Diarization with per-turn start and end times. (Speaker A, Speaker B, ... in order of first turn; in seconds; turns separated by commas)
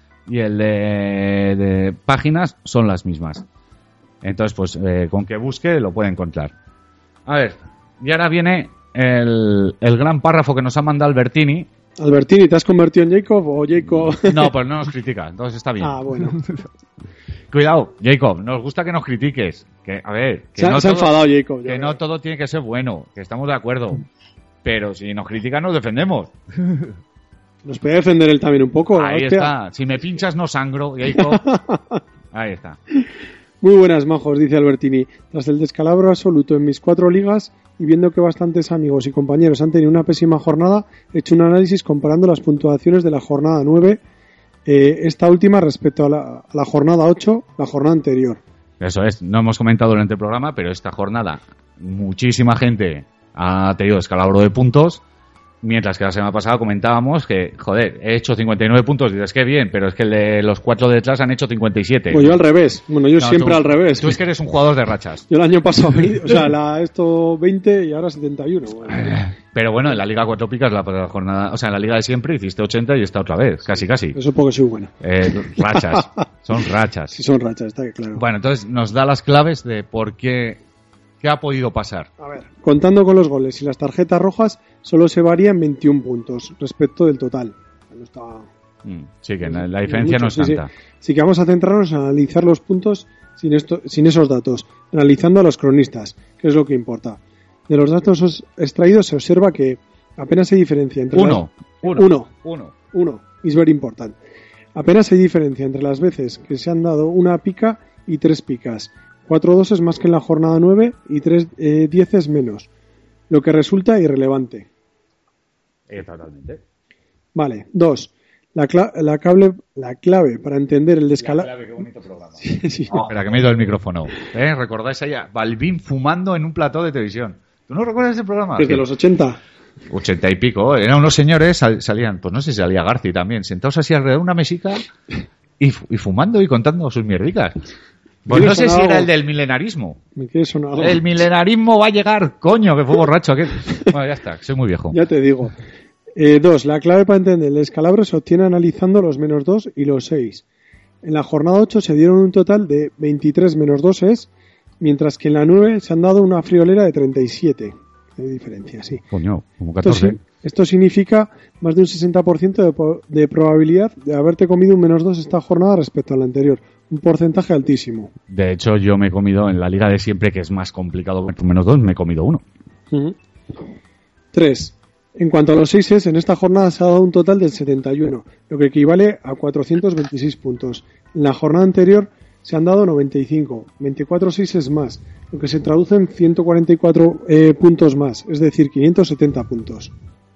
Speaker A: 0.3-3.4, Speaker A: 4.2-6.5, Speaker A: 7.3-11.7, Speaker B: 12.0-14.5, Speaker A: 14.0-16.7, Speaker B: 15.8-16.4, Speaker A: 17.5-24.1, Speaker B: 20.6-22.0, Speaker A: 24.6-26.9, Speaker B: 27.6-29.5, Speaker A: 28.9-31.4, Speaker B: 31.1-32.0, Speaker A: 32.3-32.8, Speaker B: 33.6-44.0, Speaker B: 44.6-48.4, Speaker A: 48.8-55.0, Speaker A: 55.6-62.4, Speaker B: 62.1-64.2, Speaker A: 63.2-65.3, Speaker B: 65.3-69.2, Speaker A: 68.9-74.2, Speaker B: 74.1-74.9, Speaker A: 75.0-77.1, Speaker B: 77.1-78.2, Speaker A: 78.1-80.6, Speaker A: 81.2-82.1, Speaker B: 82.2-88.5, Speaker A: 88.8-90.7, Speaker B: 89.4-102.3, Speaker A: 101.1-102.7, Speaker B: 102.9-104.2, Speaker B: 104.8-112.7, Speaker B: 113.3-114.7, Speaker A: 115.9-116.6, Speaker B: 117.3-121.5, Speaker A: 121.2-128.8, Speaker B: 122.4-123.0, Speaker B: 128.6-129.4, Speaker A: 129.9-134.9, Speaker A: 135.6-137.6, Speaker A: 138.3-140.0, Speaker B: 138.3-139.1, Speaker B: 140.2-141.0, Speaker A: 140.8-145.0, Speaker B: 144.9-145.6, Speaker B: 146.2-150.4, Speaker B: 151.0-154.3, Speaker B: 154.8-159.0, Speaker A: 159.1-160.2, Speaker B: 159.8-168.1, Speaker A: 168.3-172.4, Speaker B: 172.9-173.2, Speaker B: 174.3-189.9